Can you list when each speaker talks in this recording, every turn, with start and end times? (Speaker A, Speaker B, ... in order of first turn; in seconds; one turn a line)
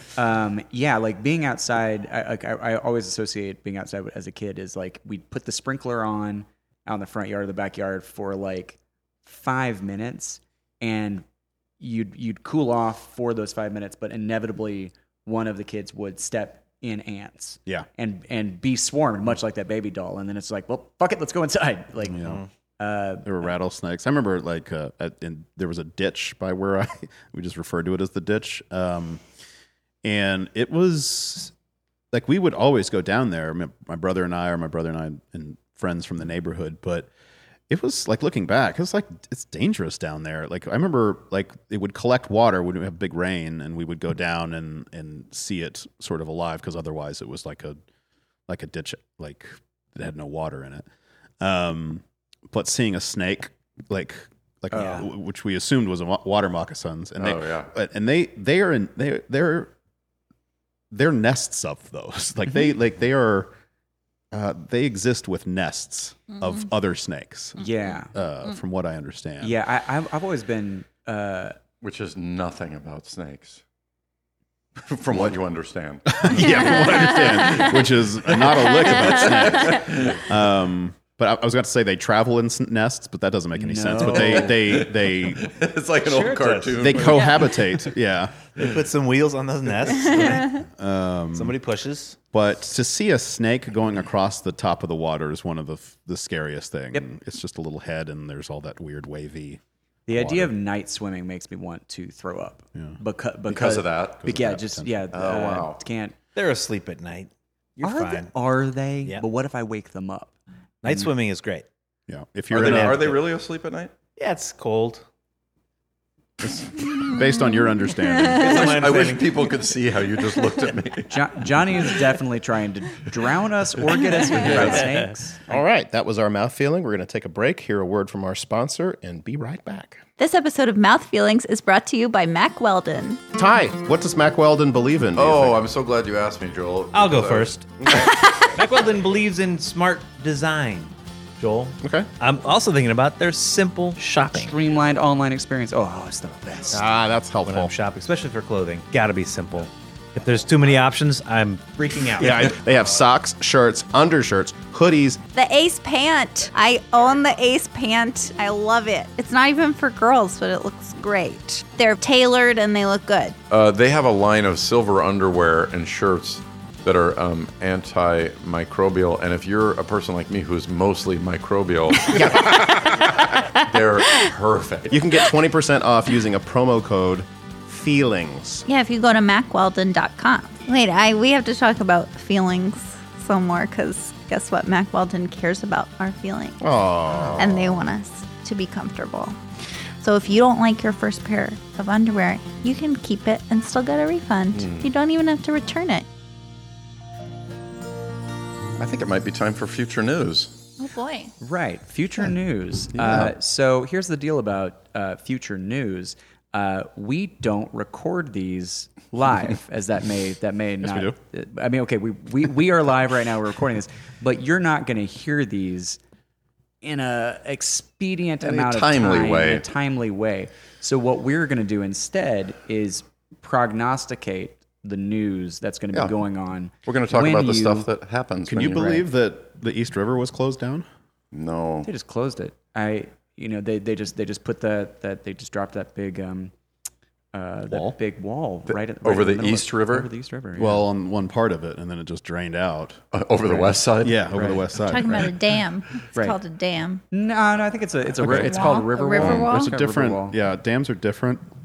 Speaker A: 0.1-11.2
Speaker A: 11.8-23.3
Speaker B: 22.1-22.4
Speaker C: 22.2-22.5
Speaker B: 23.2-29.2
Speaker B: 30.0-31.5
Speaker B: 32.1-37.1
Speaker B: 37.7-47.8
Speaker B: 48.5-50.9
Speaker B: 51.4-59.7
Speaker A: 54.7-55.1
Speaker D: 57.2-57.7
Speaker B: 60.9-63.5
Speaker B: 64.3-69.5
Speaker A: 67.6-68.1
Speaker A: 69.4-71.6
Speaker D: 71.8-73.6
Speaker D: 74.8-77.8
Speaker B: 76.1-85.5
Speaker E: 76.4-77.8
Speaker D: 78.5-80.3
Speaker E: 78.5-79.8
Speaker A: 83.5-84.6
Speaker D: 84.0-87.9
Speaker C: 86.0-87.2
Speaker B: 86.8-88.3
Speaker E: 87.1-87.5
Speaker C: 88.6-90.6
Speaker B: 90.5-91.6
Speaker C: 91.3-92.2
Speaker B: 92.3-100.5
Speaker A: 100.1-106.1
Speaker D: 103.5-104.2
Speaker B: 104.2-105.0
Speaker D: 105.1-105.8
Speaker C: 106.3-108.3
Speaker A: 107.8-110.3
Speaker C: 110.8-111.7
Speaker B: 112.1-113.2
Speaker D: 112.5-113.9
Speaker C: 112.6-113.1
Speaker C: 114.2-115.0
Speaker B: 116.4-118.8
Speaker C: 118.3-119.4
Speaker D: 118.3-121.2
Speaker A: 121.1-125.5
Speaker D: 124.3-124.9
Speaker C: 124.6-125.0
Speaker F: 125.5-130.0
Speaker E: 130.2-133.2
Speaker F: 133.3-135.6
Speaker D: 135.2-137.9
Speaker C: 136.9-144.5
Speaker F: 141.8-142.1
Speaker A: 144.4-146.8
Speaker F: 146.7-147.7
Speaker C: 147.4-152.3
Speaker A: 151.8-152.5
Speaker F: 152.2-155.2
Speaker E: 155.3-163.4
Speaker D: 163.5-175.1
Speaker F: 172.1-173.0
Speaker F: 174.9-178.7
Speaker E: 178.7-186.6
Speaker F: 186.6-187.8
Speaker E: 187.4-189.4
Speaker E: 190.0-196.1
Speaker D: 194.5-194.9
Speaker D: 198.8-200.6
Speaker E: 200.8-201.3
Speaker A: 201.4-216.0
Speaker B: 203.0-203.3
Speaker B: 210.8-211.2
Speaker A: 216.8-227.9
Speaker D: 218.4-219.6
Speaker D: 226.8-229.1
Speaker B: 228.4-230.9
Speaker D: 231.3-231.9
Speaker A: 231.8-236.5
Speaker A: 237.3-240.8
Speaker B: 237.7-237.9
Speaker D: 239.0-240.1
Speaker B: 240.6-243.0
Speaker D: 243.1-244.4
Speaker B: 244.0-245.3
Speaker A: 244.3-244.6
Speaker E: 244.8-247.0
Speaker A: 247.1-250.4
Speaker B: 248.2-251.4
Speaker E: 248.2-249.7
Speaker D: 249.1-249.4